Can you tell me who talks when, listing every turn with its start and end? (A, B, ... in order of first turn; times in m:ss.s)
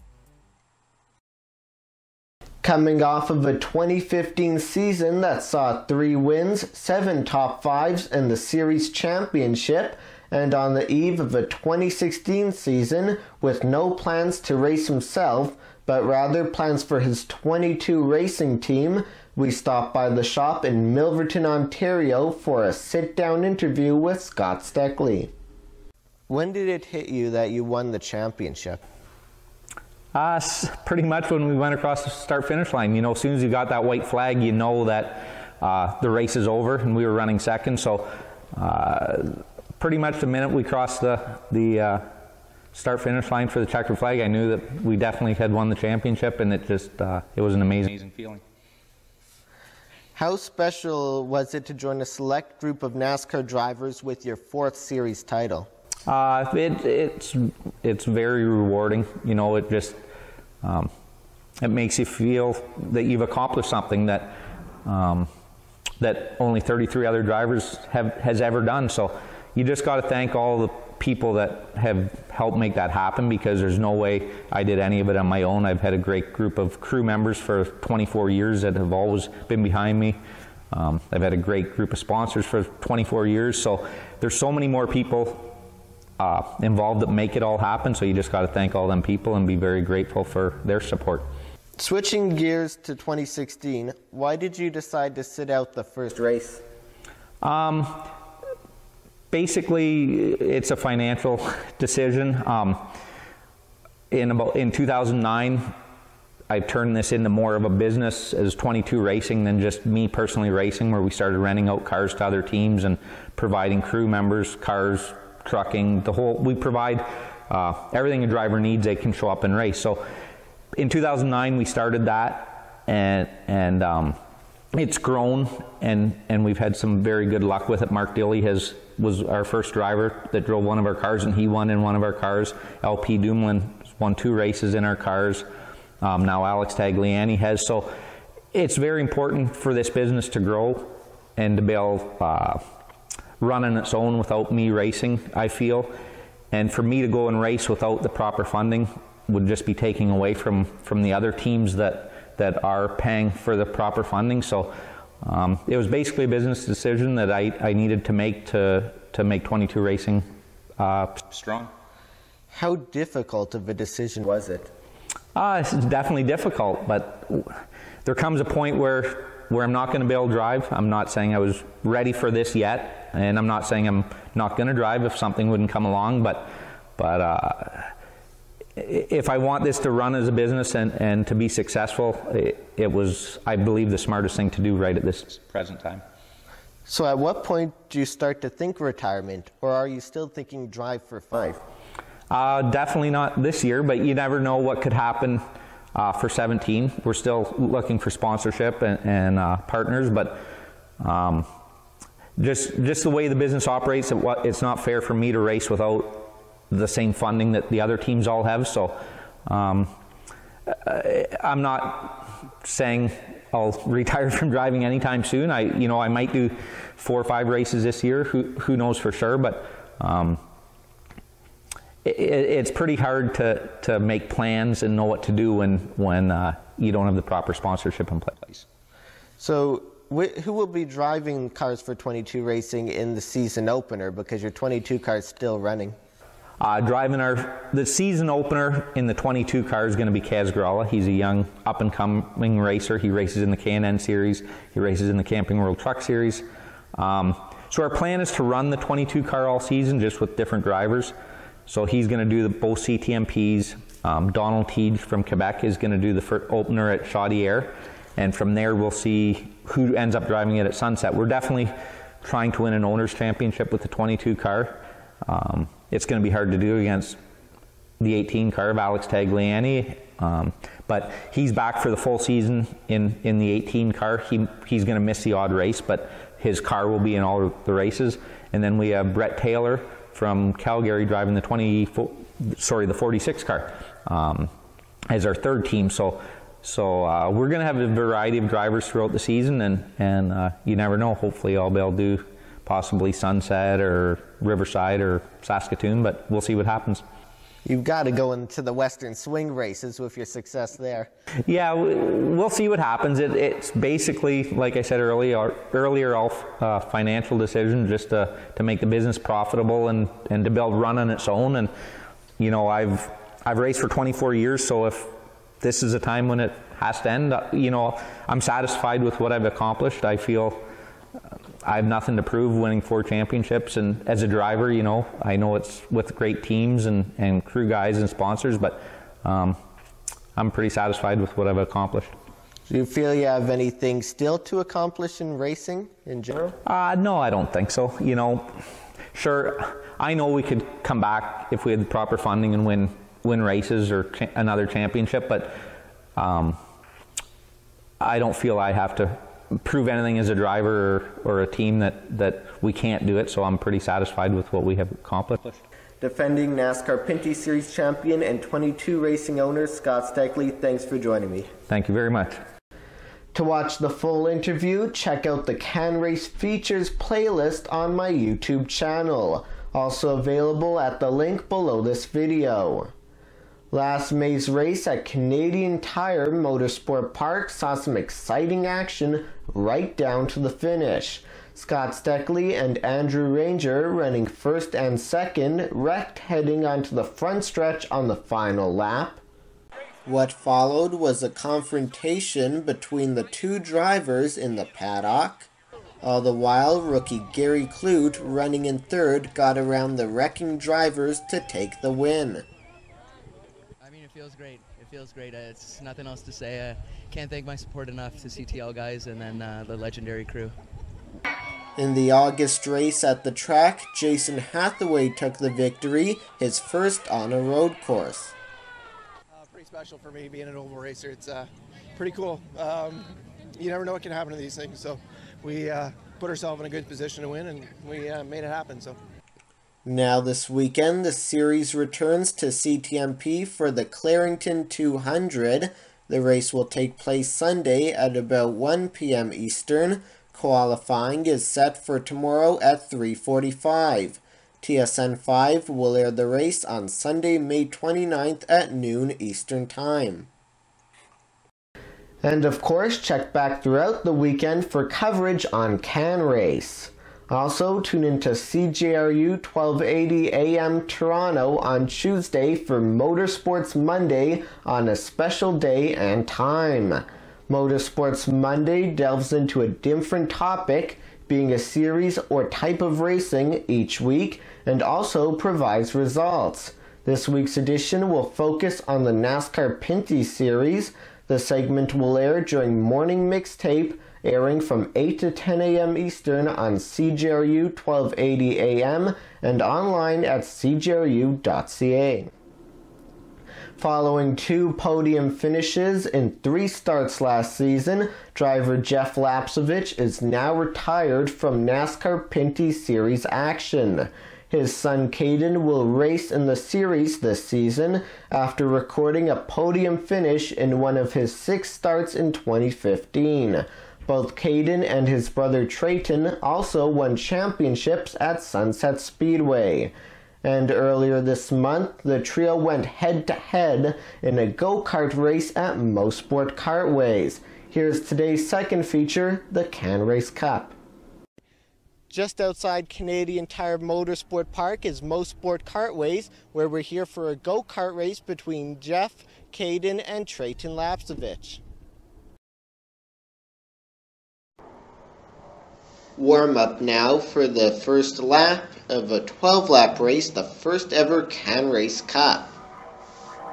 0:02.6-0:25.3 A
0:26.3-0:28.8 A
0:30.1-0:42.1 B
0:42.7-0:48.4 B
0:50.2-0:55.7 A
0:56.1-1:00.0 B
1:00.6-1:00.9 B
1:01.6-1:05.3 B
1:06.0-1:20.2 B
1:20.7-1:25.6 B
1:26.2-1:31.3 B
1:31.8-1:36.6 A
1:37.4-1:38.1 B
1:39.3-1:42.8 B
1:44.1-1:45.7 B
1:46.5-2:00.0 B
2:00.8-2:04.2 B
2:04.7-2:15.4 B
2:16.0-2:17.9 B
2:18.5-2:22.6 B
2:23.4-2:25.9 B
2:26.5-2:40.2 B
2:40.8-2:41.7 B
2:42.5-2:44.7 A
2:45.4-2:57.9 B
2:58.8-3:06.0 B
3:06.9-3:11.6 A
3:12.3-3:15.4 B
3:16.0-3:20.4 B
3:21.0-3:21.5 B
3:22.4-3:29.9 B
3:30.7-3:40.4 B
3:42.0-3:48.6 B
3:49.4-3:56.0 A
3:56.6-4:06.4 B
4:07.0-4:11.2 B
4:11.7-4:27.2 B
4:28.0-4:44.5 B
4:45.1-4:57.0 B
4:57.6-5:01.1 A
5:01.5-5:11.7 B
5:12.4-5:20.6 B
5:21.6-5:29.6 B
5:30.4-5:32.1 B
5:32.7-5:36.6 A
5:36.6-5:38.5 B
5:39.1-5:45.6 B
5:46.2-5:46.6 B
5:48.0-5:55.6 B
5:56.0-6:01.5 A
6:01.7-6:02.4 B
6:03.3-6:12.9 A
6:13.7-6:29.2 A
6:30.1-6:35.5 A
6:36.0-6:42.4 A
6:43.8-6:50.6 C
6:51.8-6:58.4 A
6:59.5-7:01.4 D
7:02.0-7:03.0 D
7:03.6-7:04.9 D
7:05.4-7:08.9 D
7:09.8-7:30.3 A
7:32.2-8:12.3 A
8:13.8-8:39.9 A
8:40.4-8:50.8 A
8:52.1-9:01.6 A
9:06.2-9:12.6 A